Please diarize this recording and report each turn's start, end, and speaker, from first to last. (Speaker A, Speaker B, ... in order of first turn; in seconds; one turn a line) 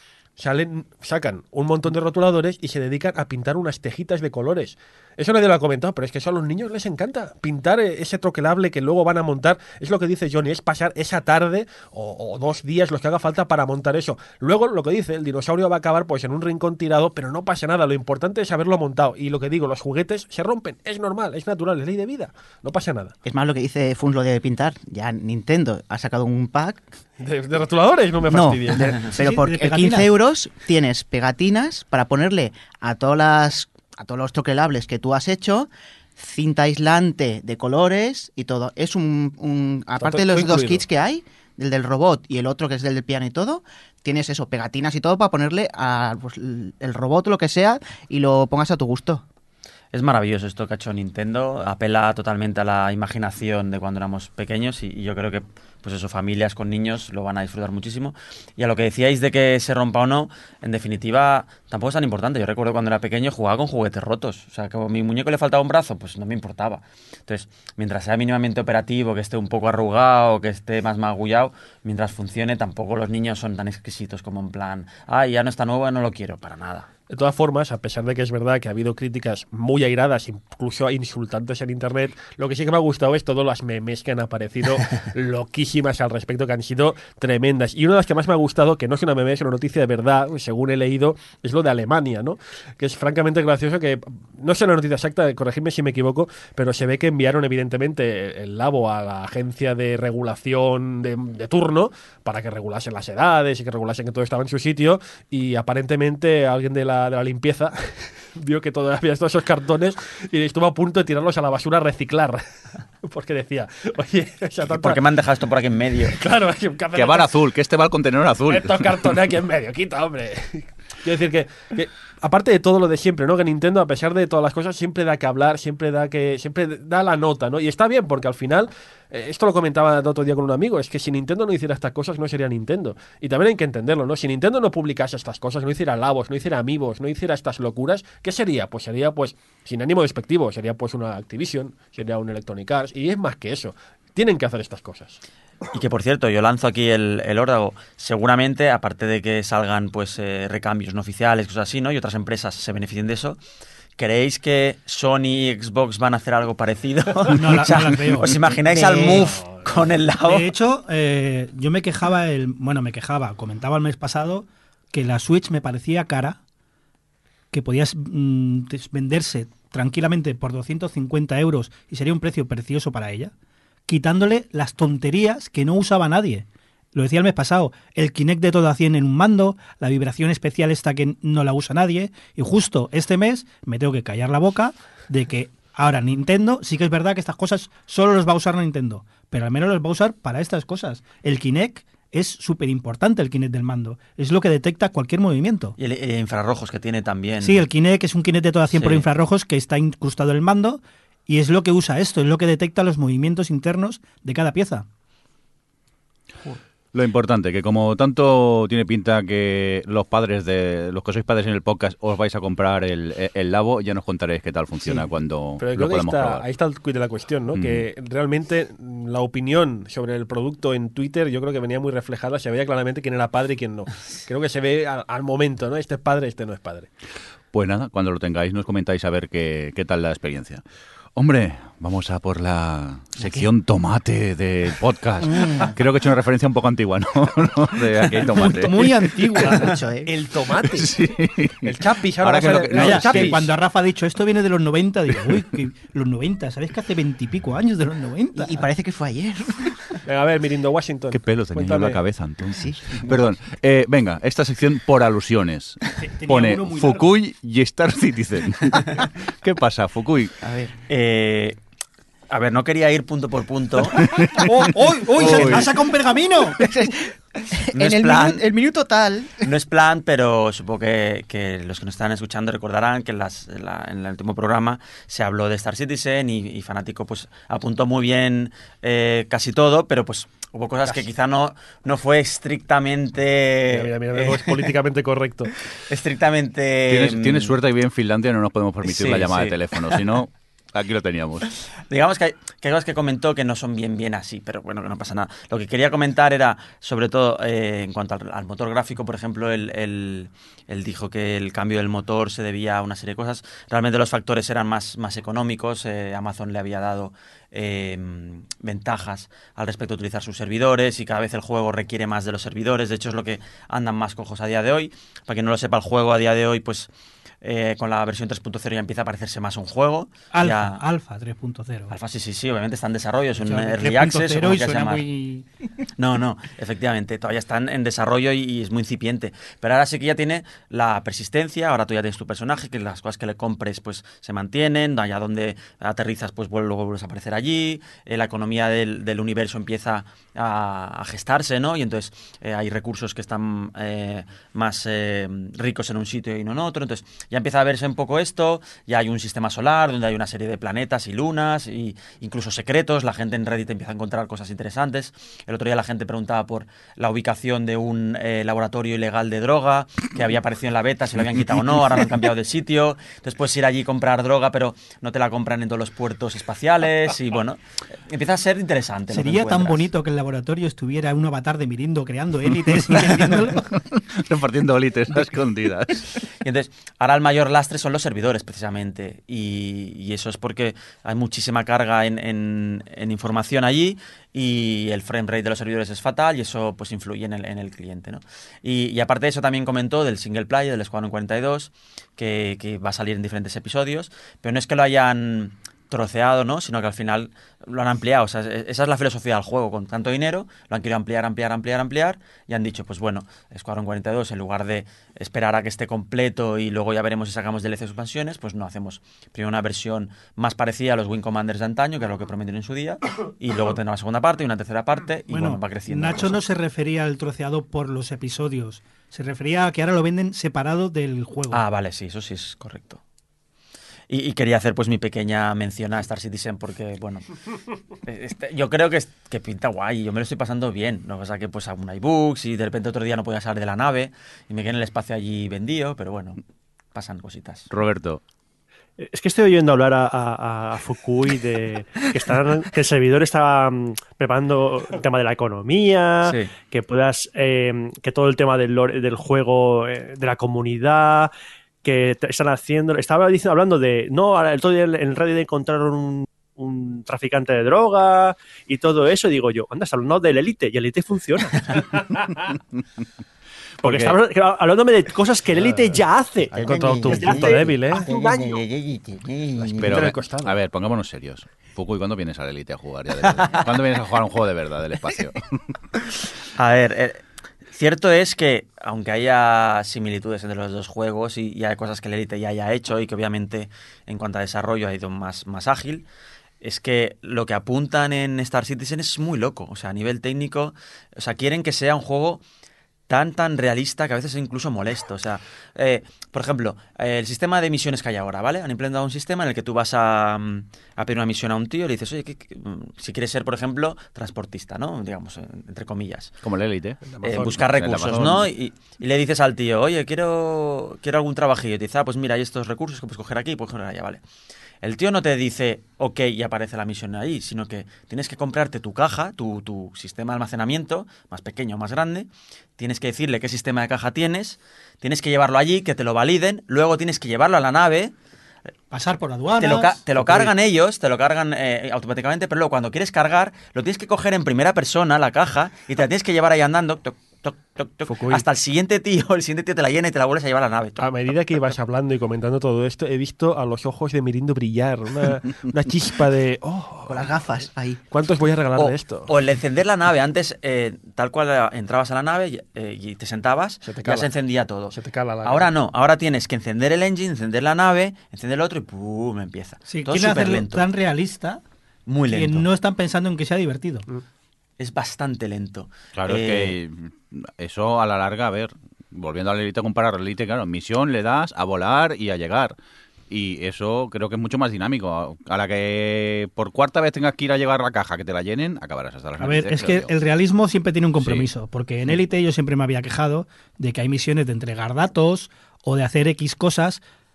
Speaker A: 0.4-23.1
Speaker B: 23.2-26.9
Speaker A: 27.2-29.0
Speaker B: 28.3-49.2
Speaker C: 29.1-30.1
Speaker A: 40.0-40.8
Speaker D: 49.9-76.9
Speaker A: 77.1-112.4
Speaker A: 113.0-115.0
Speaker D: 114.7-116.2
Speaker A: 116.1-117.3
Speaker E: 116.9-118.9
Speaker A: 118.5-145.2
Speaker D: 145.7-153.4
Speaker D: 154.0-160.5
Speaker C: 157.3-158.4
Speaker B: 158.7-159.1
Speaker A: 159.1-159.9
Speaker C: 160.2-166.4
Speaker C: 167.5-173.3
Speaker C: 173.9-195.8
Speaker D: 195.8-197.7
Speaker C: 197.4-204.9
Speaker D: 198.7-199.0
Speaker E: 206.9-216.4
Speaker A: 215.6-226.9
Speaker E: 217.6-217.8
Speaker E: 227.5-230.6
Speaker E: 231.2-238.8
Speaker B: 235.2-235.7
Speaker C: 238.3-239.7
Speaker B: 239.4-240.1
Speaker A: 240.1-240.9
Speaker E: 240.7-243.5
Speaker A: 241.6-243.5
Speaker C: 242.7-248.6
Speaker B: 248.3-250.0
Speaker A: 250.1-252.0
Speaker E: 251.1-260.3
Speaker B: 252.6-253.0
Speaker C: 256.0-257.1
Speaker B: 260.4-260.8
Speaker D: 260.9-261.6
Speaker D: 262.3-264.3
Speaker E: 264.1-264.4
Speaker C: 264.4-266.6
Speaker D: 265.2-265.7
Speaker B: 266.6-269.5
Speaker D: 267.7-268.4
Speaker D: 269.4-284.7
Speaker A: 283.7-285.5
Speaker D: 285.9-287.6
Speaker E: 286.9-291.5
Speaker D: 288.9-290.0
Speaker D: 291.9-316.9
Speaker D: 317.4-320.8
Speaker C: 320.3-321.9
Speaker D: 321.9-325.1
Speaker C: 323.4-325.4
Speaker D: 326.0-369.9
Speaker C: 369.1-373.7
Speaker E: 372.9-376.1
Speaker D: 376.4-416.4
Speaker C: 415.3-421.6
Speaker D: 421.5-423.0
Speaker D: 424.1-427.3
Speaker D: 428.0-436.4
Speaker D: 436.9-437.7
Speaker E: 437.7-438.2
Speaker F: 439.0-451.3
Speaker D: 446.2-446.5
Speaker F: 451.8-461.8
Speaker E: 463.8-464.2
Speaker F: 463.8-467.8
Speaker A: 465.6-466.0
Speaker D: 466.6-470.1
Speaker A: 466.6-468.6
Speaker A: 469.7-470.6
Speaker E: 469.8-475.6
Speaker D: 473.2-473.8
Speaker D: 476.6-477.2
Speaker D: 477.7-486.1
Speaker D: 486.6-492.4
Speaker D: 493.1-506.3
Speaker E: 506.4-508.5
Speaker A: 507.1-507.6
Speaker D: 507.2-514.2
Speaker D: 514.8-528.1
Speaker C: 528.9-530.0
Speaker D: 529.6-541.0
Speaker A: 530.2-530.5
Speaker A: 538.1-538.4
Speaker A: 541.0-547.3
Speaker B: 547.1-548.0
Speaker A: 548.1-549.3
Speaker D: 548.8-560.9
Speaker A: 553.9-554.3
Speaker A: 554.9-555.7
Speaker C: 559.9-561.6
Speaker D: 562.1-562.7
Speaker C: 562.3-564.1
Speaker D: 564.8-566.8
Speaker E: 566.1-572.8
Speaker E: 573.3-580.1
Speaker C: 579.4-587.0
Speaker E: 581.2-581.5